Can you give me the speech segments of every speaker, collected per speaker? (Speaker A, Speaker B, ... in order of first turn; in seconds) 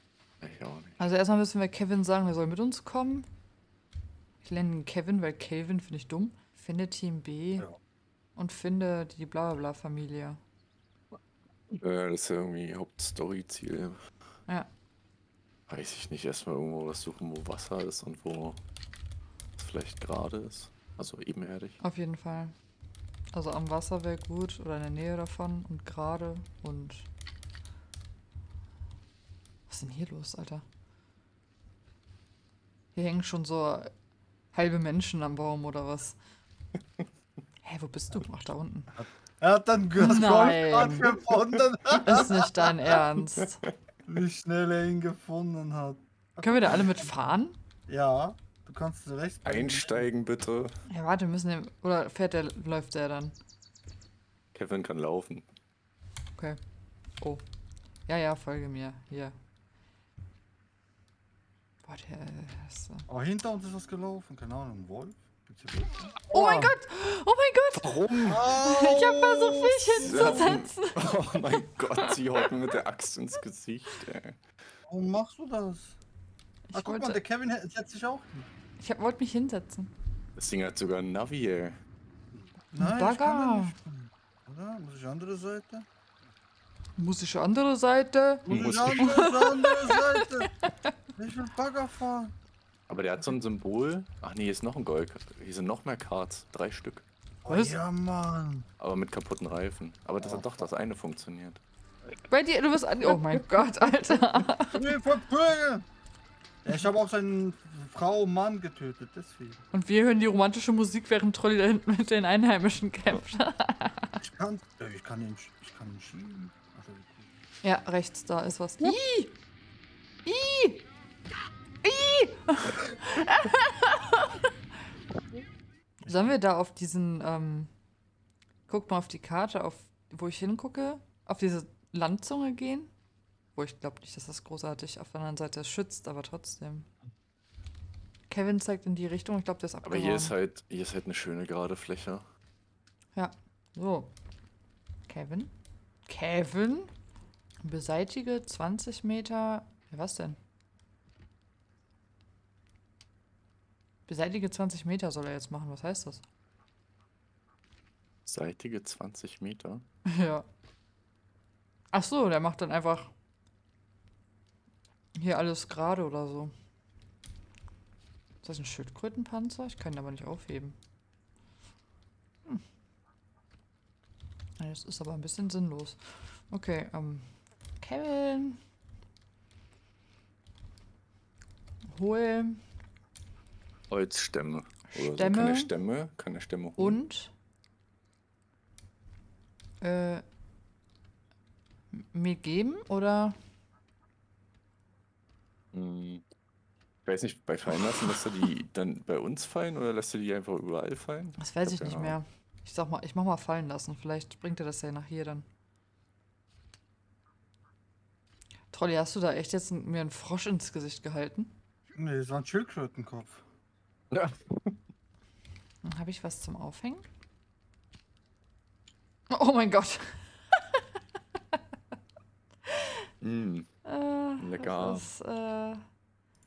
Speaker A: 0.4-1.0, 11.7-14.0, 15.7-18.6, 19.6-21.8, 49.4-50.8, 54.5-55.5, 67.8-68.4, 70.0-74.4, 80.4-81.8, 88.5-89.3, 92.9-97.0, 98.8-101.6, 139.8-142.3, 158.3-159.8, 183.9-187.0, 195.7-196.2, 197.1-202.2, 214.1-214.8, 223.2-223.7, 224.4-225.1
Speaker B: 1.0-3.3, 4.4-7.7, 8.4-10.4, 21.8-22.5, 23.3-27.1, 29.7-30.6, 32.9-33.9, 34.5-36.2, 37.6-38.9, 40.0-41.2, 42.0-43.6, 46.4-47.6, 50.9-53.4, 58.1-59.4, 61.8-63.1, 66.3-71.2, 71.8-72.2, 76.7-77.2, 78.8-79.9, 82.8-83.8, 87.0-90.9, 97.5-97.8, 102.3-104.9, 109.7-114.2, 117.6-119.3, 120.2-120.8, 121.8-124.3, 126.1-127.7, 128.7-132.9, 133.6-136.9, 138.3-140.4, 143.1-144.1, 145.1-145.5, 146.1-146.9, 147.6-150.4, 154.1-156.2, 160.1-160.4, 161.9-163.1, 165.2-166.5, 168.4-170.8, 174.6-177.2, 177.8-178.6, 181.9-182.6, 184.9-185.7, 186.8-187.3, 189.8-190.2, 191.9-193.4, 201.4-205.4, 208.7-211.5, 215.8-217.1, 219.3-220.6, 223.8-225.8
Speaker C: 39.0-43.0, 44.1-47.1, 47.9-50.1, 63.1-66.8, 68.2-70.6, 74.9-76.0, 76.7-78.5, 82.3-85.9, 88.5-90.5, 91.2-92.3, 97.5-98.7, 100.2-100.5, 104.7-105.9, 106.6-109.6, 114.2-117.3, 126.0-126.4, 211.9-213.4